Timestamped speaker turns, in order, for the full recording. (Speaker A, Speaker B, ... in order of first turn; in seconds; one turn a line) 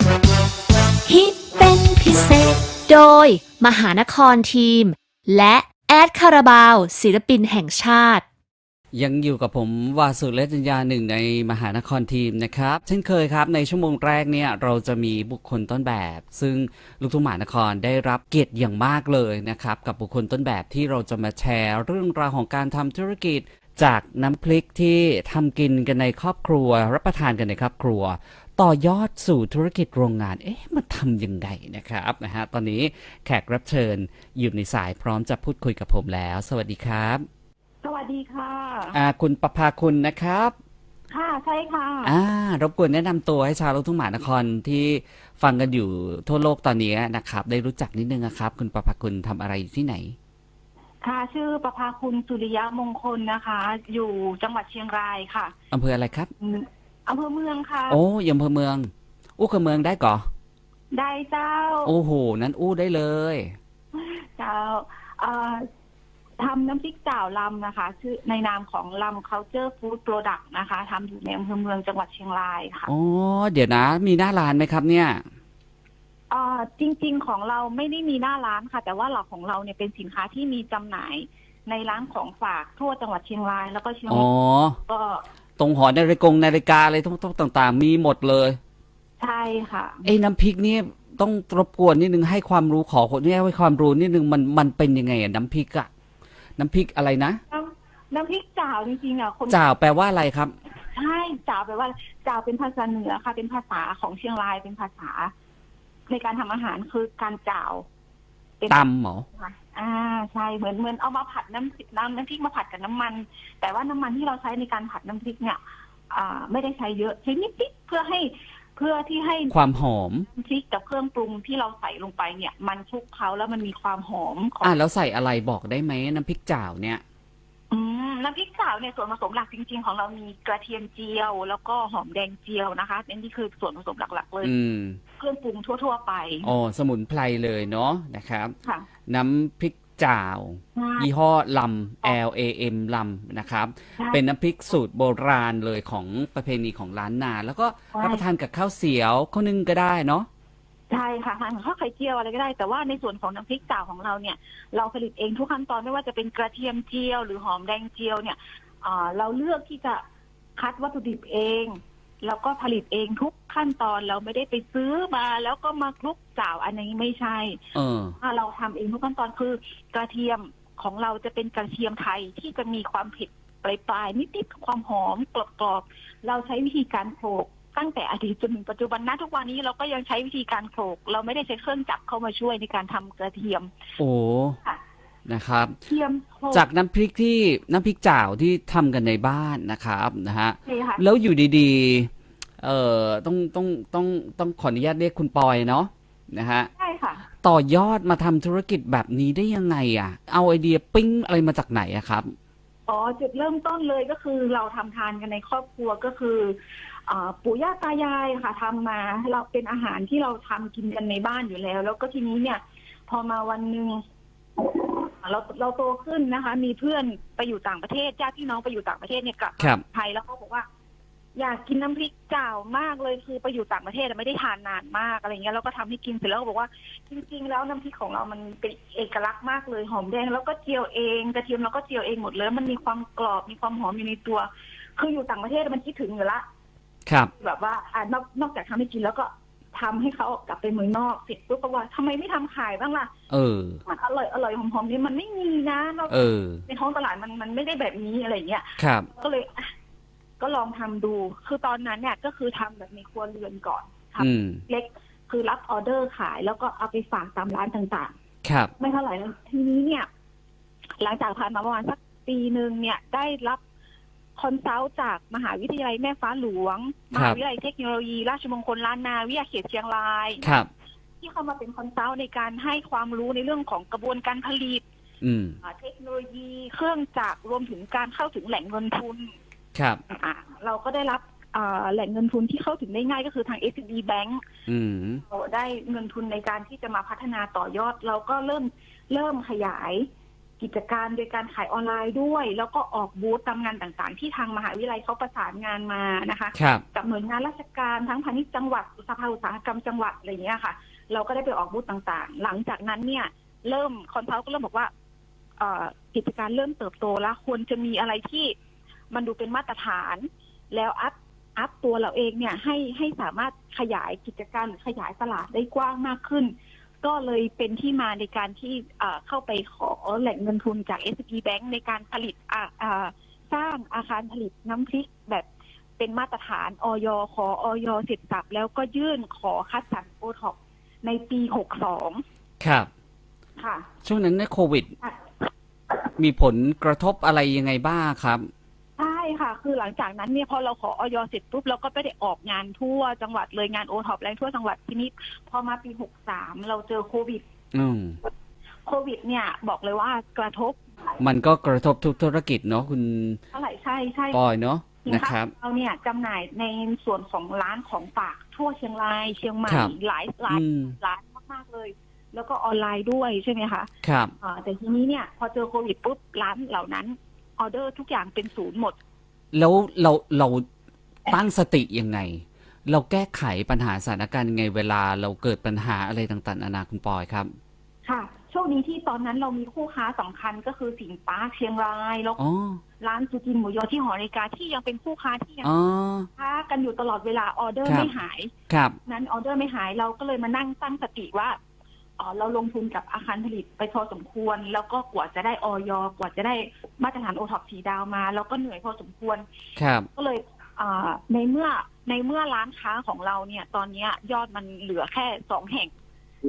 Speaker A: 1.1-8.2
Speaker B: 8.9-37.2
Speaker C: 37.8-39.0
Speaker B: 38.9-40.5
Speaker C: 41.1-42.1
Speaker B: 42.0-50.2
Speaker C: 51.0-55.5
Speaker B: 55.7-56.3
Speaker C: 56.4-58.0
Speaker B: 57.9-60.3
Speaker C: 60.9-61.9
Speaker B: 61.9-63.5
Speaker C: 63.9-65.7
Speaker C: 66.4-72.9
Speaker B: 72.9-75.2
Speaker C: 76.3-84.3
Speaker B: 84.1-84.8
Speaker C: 84.9-85.2
Speaker B: 85.6-88.6
Speaker C: 89.2-90.1
Speaker B: 90.0-95.9
Speaker B: 96.6-97.4
Speaker C: 97.5-99.6
Speaker B: 99.5-100.5
Speaker C: 100.9-105.3
Speaker C: 106.1-107.8
Speaker B: 108.7-109.3
Speaker C: 109.3-119.5
Speaker B: 119.5-120.3
Speaker C: 120.3-124.8
Speaker B: 124.6-127.0
Speaker C: 127.7-134.5
Speaker B: 134.4-135.0
Speaker C: 135.2-136.5
Speaker B: 136.4-138.5
Speaker B: 139.1-150.3
Speaker C: 140.8-141.1
Speaker C: 147.9-148.2
Speaker C: 150.9-160.0
Speaker C: 160.6-167.6
Speaker B: 167.8-168.2
Speaker C: 168.2-183.7
Speaker B: 184.0-184.6
Speaker B: 185.3-185.8
Speaker C: 185.9-186.7
Speaker B: 186.5-192.1
Speaker C: 190.7-191.0
Speaker B: 192.6-196.7
Speaker C: 196.8-197.2
Speaker B: 197.4-202.3
Speaker C: 202.9-214.0
Speaker C: 214.6-220.7
Speaker C: 221.3-236.4
Speaker C: 237.4-243.1
Speaker B: 243.3-243.8
Speaker C: 243.9-249.7
Speaker B: 246.1-246.6
Speaker B: 248.8-249.1
Speaker C: 250.4-258.1
Speaker B: 254.2-254.6
Speaker B: 258.4-258.7
Speaker C: 258.8-260.1
Speaker C: 261.0-263.6
Speaker C: 264.4-270.6
Speaker B: 267.1-267.4
Speaker B: 270.4-270.7
Speaker C: 271.2-274.8
Speaker B: 275.2-275.6
Speaker C: 275.6-279.3
Speaker B: 279.8-280.0
Speaker C: 280.1-284.4
Speaker B: 284.7-285.2
Speaker C: 285.2-290.1
Speaker C: 290.6-304.9
Speaker B: 296.6-296.8
Speaker C: 305.6-308.5
Speaker C: 309.1-332.2
Speaker B: 332.6-332.9
Speaker C: 333.6-333.9
Speaker B: 334.1-334.9
Speaker B: 336.2-338.5
Speaker C: 339.0-347.4
Speaker B: 347.7-348.2
Speaker C: 348.9-350.8
Speaker B: 351.2-353.4
Speaker C: 353.5-354.4
Speaker B: 354.3-355.5
Speaker C: 355.0-363.9
Speaker B: 359.7-359.9
Speaker B: 360.5-360.9
Speaker B: 364.0-364.3
Speaker C: 364.4-369.0
Speaker B: 369.5-370.6
Speaker B: 371.3-377.5
Speaker C: 378.1-382.4
Speaker B: 382.4-382.8
Speaker C: 383.0-385.7
Speaker B: 385.6-386.3
Speaker C: 386.4-388.5
Speaker B: 387.9-388.1
Speaker B: 388.7-389.0
Speaker C: 389.1-391.6
Speaker C: 392.2-399.4
Speaker B: 399.8-400.1
Speaker C: 400.1-405.9